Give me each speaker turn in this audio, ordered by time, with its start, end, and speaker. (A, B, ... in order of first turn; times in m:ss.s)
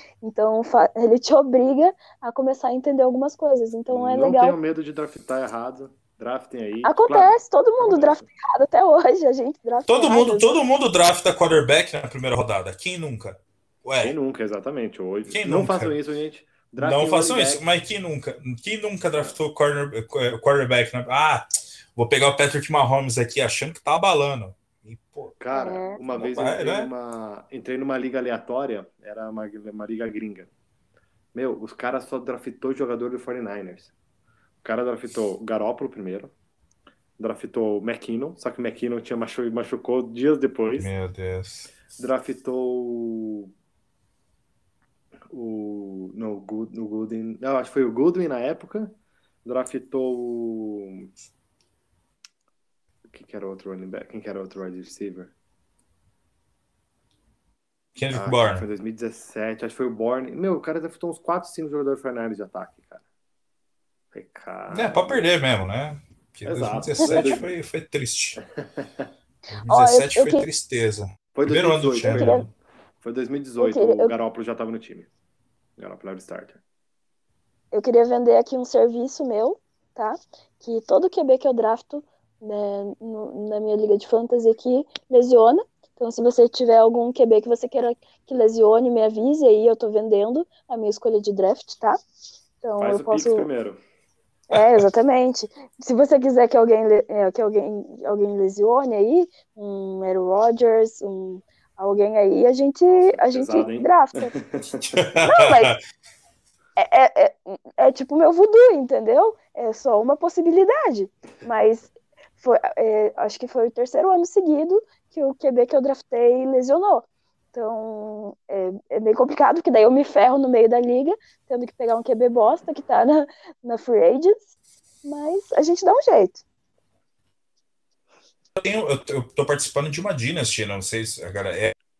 0:00.2-0:04.6 A
0:03.9-0:08.2 B
0:06.8-0:10.6 A
0:09.9-0:14.2 C
0:14.0-0:17.6 B
0:15.3-0:16.0 C
0:16.8-0:25.3 C
0:25.4-0:30.5 B
0:25.5-0:26.0 A
0:26.1-0:26.9 C
0:31.3-0:33.9 B
0:34.6-0:36.3 B
0:37.2-0:40.9 B
0:40.8-0:41.7 C
0:42.0-0:43.5 B
0:45.3-0:51.1 B
0:53.1-0:55.3 B
0:58.0-0:58.7 C
0:58.1-1:03.0 B
1:04.1-1:05.3 B
1:04.7-1:08.4 C
1:06.4-1:07.6 B
1:07.0-1:07.3 A
1:08.6-1:09.0 B
1:09.5-1:12.5 C
1:09.7-1:10.5 A
1:11.4-1:12.5 B
1:12.1-1:12.4 A
1:13.0-1:15.1 B
1:13.6-1:14.1 A
1:15.8-1:16.6 B
1:17.7-1:32.0 A
1:32.6-1:33.5 A
1:32.8-1:33.8 B
1:34.5-1:44.3 A
1:42.9-1:45.0 B
1:44.8-1:45.8 C
1:45.2-1:45.8 A
1:46.8-2:04.5 A
2:05.0-2:06.4 A
2:08.6-2:11.8 C